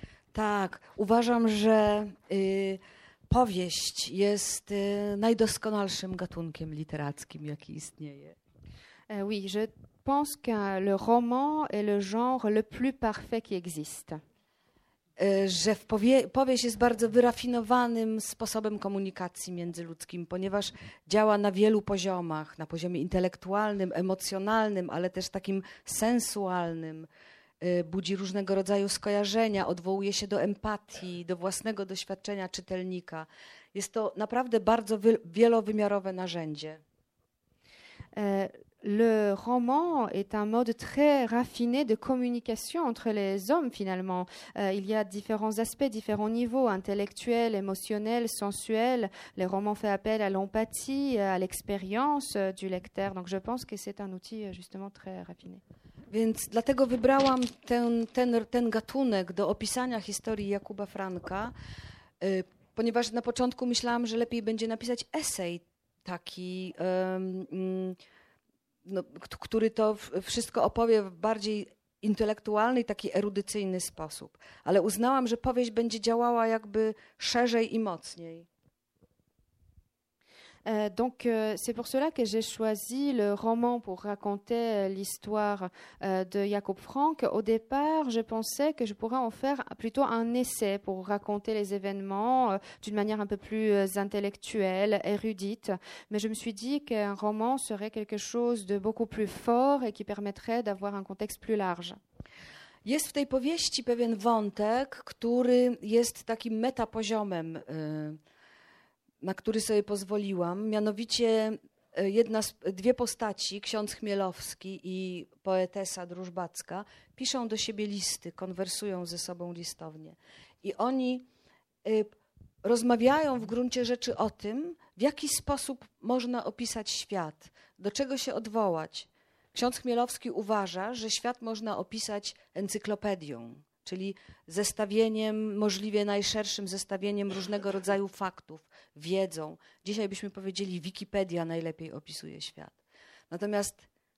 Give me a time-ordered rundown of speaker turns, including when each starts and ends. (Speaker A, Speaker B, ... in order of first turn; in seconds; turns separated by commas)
Speaker A: 0.3-8.3, Speaker B: 9.1-14.2, Speaker A: 15.2-27.1, Speaker A: 27.6-36.8, Speaker B: 38.1-55.6, Speaker A: 56.1-61.5, Speaker A: 62.2-68.0, Speaker A: 68.8-78.5, Speaker B: 80.7-102.0, Speaker A: 102.8-108.2, Speaker A: 109.2-121.3, Speaker A: 121.8-142.8, Speaker A: 143.3-143.8